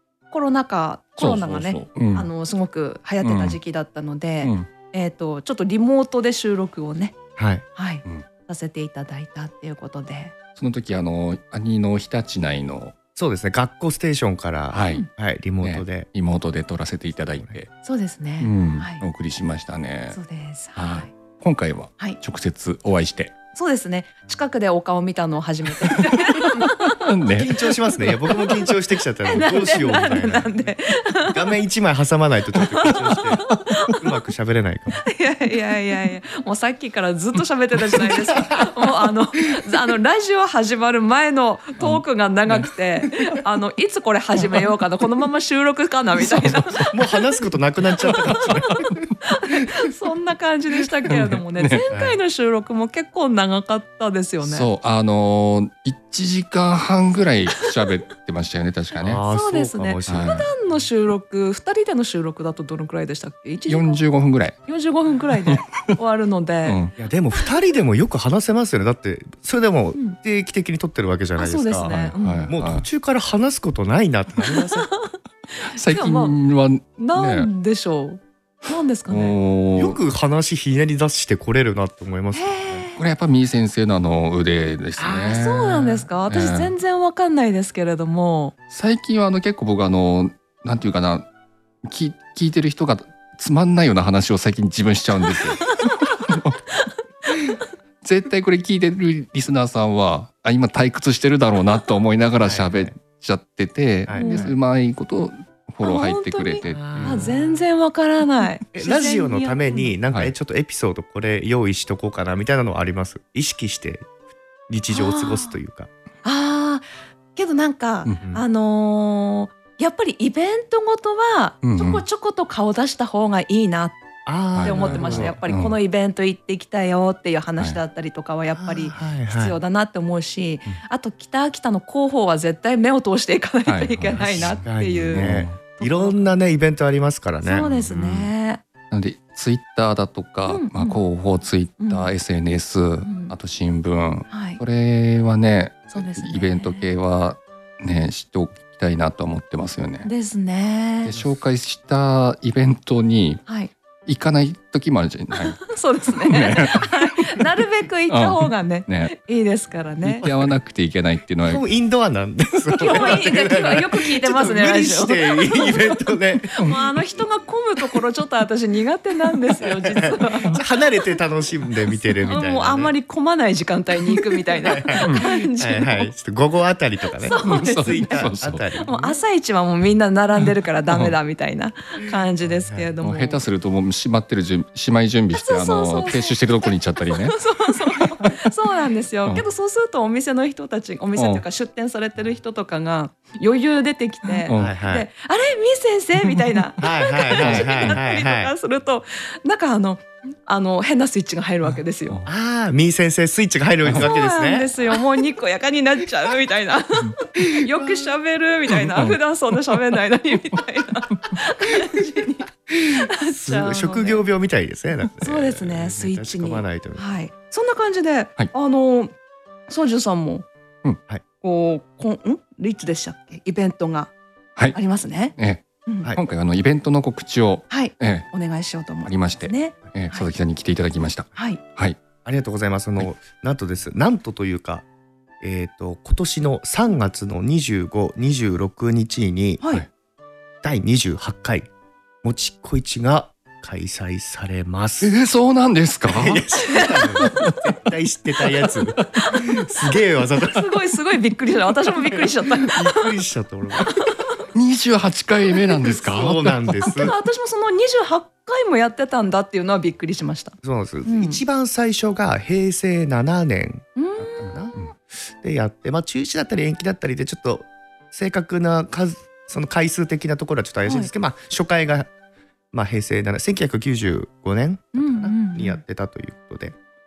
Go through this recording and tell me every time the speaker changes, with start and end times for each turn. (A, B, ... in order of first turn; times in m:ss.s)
0:00.3-0:07.2 A
0:01.2-0:02.3 B
0:03.2-0:03.6 B
0:04.4-0:04.7 B
0:07.4-0:07.6 C
0:07.8-0:10.3 A
0:10.6-0:12.9 B
0:13.2-0:16.1 C
0:14.7-0:15.0 B
0:15.6-0:17.7 B
0:17.8-0:19.0 A
0:18.4-0:20.2 B
0:20.1-0:21.1 A
0:20.8-0:23.3 B
0:23.5-0:27.0 A
0:25.8-0:27.7 B
0:27.4-0:30.7 C
0:29.2-0:31.5 A
0:31.3-0:35.0 C
0:32.8-0:34.0 A
0:35.0-0:46.9 A
0:46.2-0:46.9 B
0:46.9-0:49.1 C
0:48.0-0:48.6 B
0:49.2-0:54.7 A
0:51.1-0:51.8 B
0:51.9-0:52.2 C
0:54.4-0:59.2 B
0:59.0-1:00.5 C
0:59.1-1:04.0 A
1:00.1-1:00.5 B
1:03.7-1:04.6 B
1:04.7-1:06.8 A
1:05.4-1:06.0 B
1:06.6-1:06.9 B
1:07.0-1:14.9 C
1:11.4-1:12.5 A
1:12.2-1:12.9 B
1:14.4-1:16.4 A
1:15.7-1:17.5 B
1:17.0-1:19.4 A
1:19.1-1:20.0 B
1:19.8-1:22.8 C
1:22.3-1:23.0 A
1:23.0-1:26.7 B
1:25.0-1:28.5 A
1:28.7-1:31.2 B
1:31.8-1:36.6 B
1:35.3-1:36.2 A
1:36.7-1:37.6 A
1:38.0-1:47.3 B
1:42.4-1:42.9 C
1:44.1-1:44.5 C
1:44.1-1:44.5 A
1:45.8-1:49.9 A
1:46.8-1:47.5 C
1:48.7-1:54.1 C
1:54.7-1:55.9 C
1:54.9-1:55.6 A
1:56.2-2:04.0 A
2:01.6-2:02.0 B
2:04.2-2:05.4 C
2:04.6-2:05.8 B
2:04.6-2:16.2 A
2:08.6-2:09.6 C
2:13.7-2:15.6 B
2:14.6-2:17.8 C
2:17.4-2:18.6 A
2:17.8-2:18.3 B
2:18.9-2:30.1 B
2:20.5-2:21.0 A
2:21.8-2:22.1 A
2:23.0-2:23.4 A
2:24.3-2:24.6 A
2:25.9-2:26.9 A
2:30.0-2:31.1 A
2:31.0-2:33.4 B
2:33.5-2:33.7 A
2:34.1-2:37.4 B
2:35.4-2:40.2 A
2:38.1-2:39.1 B
2:40.1-2:41.6 B
2:40.2-2:40.5 C
2:41.4-2:47.0 C
2:42.8-2:46.0 A
2:46.5-2:50.6 A
2:49.6-2:52.9 C
2:52.3-2:56.1 A
2:54.1-2:59.2 C
2:57.2-3:03.4 A
2:57.4-2:58.6 B
3:00.9-3:01.1 B
3:02.4-3:02.9 C
3:03.0-3:07.4 B
3:05.3-3:22.2 A
3:11.2-3:11.4 B
3:14.3-3:14.8 B
3:14.5-3:15.1 C
3:16.8-3:18.5 C
3:17.4-3:18.0 B
3:22.2-3:24.7 C
3:24.0-3:34.2 A
3:27.4-3:28.1 C
3:32.8-3:37.0 C
3:35.2-3:39.1 A
3:39.7-3:40.4 A
3:41.4-3:44.1 A
3:44.7-3:45.4 A
3:45.4-3:48.3 B
3:45.9-3:46.1 A
3:47.7-3:50.3 A
3:49.0-3:52.0 B
3:51.4-3:51.6 A
3:52.2-3:54.8 C
3:55.4-3:59.6 C
4:00.6-4:01.7 C
4:02.2-4:05.2 C
4:05.0-4:06.4 B
4:06.1-4:10.8 C
4:06.6-4:07.3 A
4:07.2-4:07.7 B
4:09.2-4:09.7 A
4:10.4-4:13.1 A
4:12.1-4:14.1 C
4:13.9-4:14.3 A
4:14.5-4:16.8 B
4:15.8-4:17.2 C
4:16.9-4:21.4 A
4:20.6-4:32.1 C
4:24.0-4:24.9 A
4:30.8-4:31.1 A
4:32.7-4:36.8 C
4:34.9-4:35.8 A